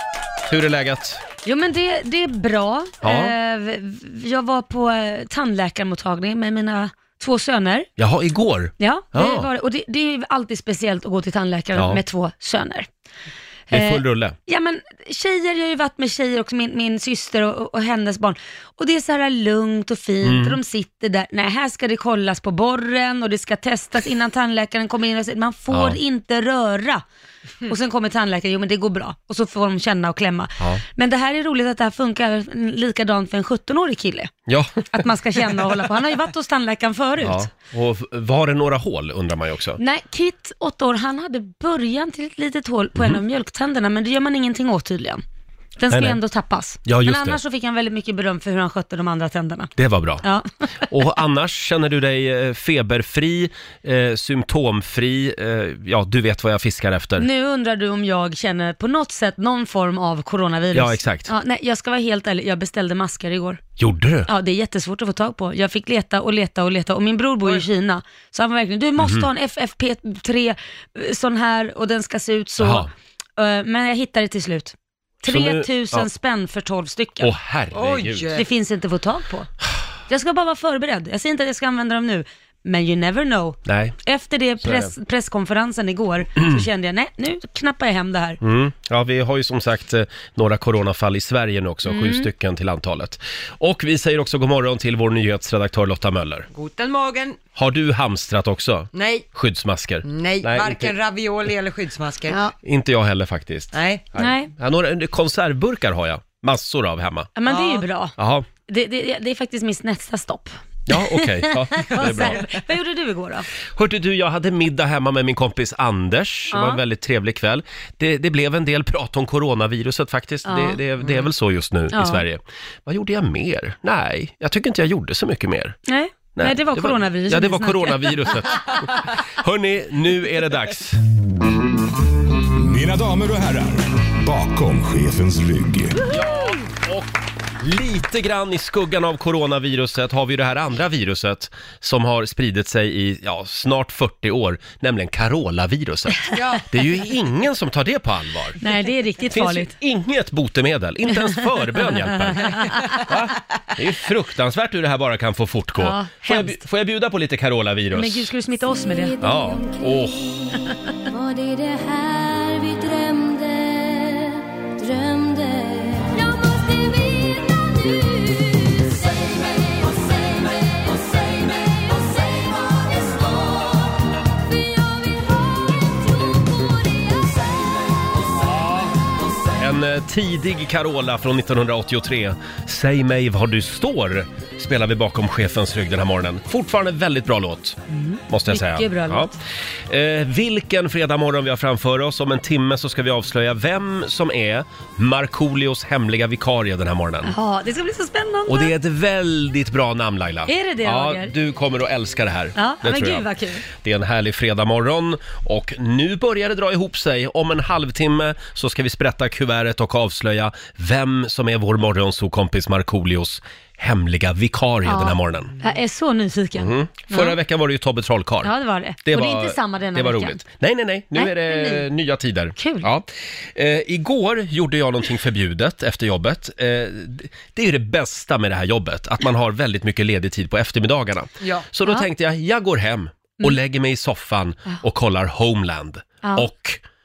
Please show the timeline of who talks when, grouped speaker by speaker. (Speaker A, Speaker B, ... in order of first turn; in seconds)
Speaker A: 0.5-1.2, 3.0-3.3, 8.0-9.5, 11.8-12.0, 13.7-14.3, 20.2-20.6, 25.7-26.0, 34.5-35.0, 37.2-39.8, 45.9-46.2, 46.9-47.4, 49.8-50.2, 50.9-57.3, 60.7-61.3, 63.8-64.3, 69.0-69.3, 72.6-72.9, 75.3-76.1, 77.2-78.3, 83.7-84.0, 84.6-84.9, 86.3-86.7, 88.4-96.5, 97.5-100.9, 102.6-107.3, 108.2-108.5, 110.9-112.4, 113.7-125.8, 126.3-131.0, 136.0-148.6, 149.3-158.3, 159.2-160.3, 178.5-178.9, 179.6-189.3, 189.9-197.3, 198.5-215.5, 216.6-218.5, 219.1-236.8
Speaker B: 1.4-7.9, 8.8-12.9, 13.7-27.0, 27.6-34.3, 34.9-37.5, 39.8-45.2, 45.8-49.7, 57.2-63.6, 64.3-77.3, 78.3-79.5, 80.1-88.4, 91.8-92.3, 102.3-102.5, 104.2-104.5, 107.3-108.1, 108.7-113.5, 116.5-116.8, 120.5-120.8, 121.9-122.2, 125.9-128.4, 148.6-149.7, 151.3-152.4, 155.8-156.6, 157.9-159.2, 187.9-189.4, 197.2-198.7, 200.5-201.3, 202.6-203.6, 214.8-217.4, 218.4-220.4, 221.1-221.8, 222.6-222.9, 236.2-236.5
Speaker C: 77.7-78.5, 96.5-97.4, 98.9-99.2, 100.0-102.4, 103.7-104.0, 107.5-107.8, 111.9-112.5, 146.3-146.6, 152.4-152.9, 231.4-231.7
Speaker D: 132.5-136.0
Speaker E: 158.9-177.9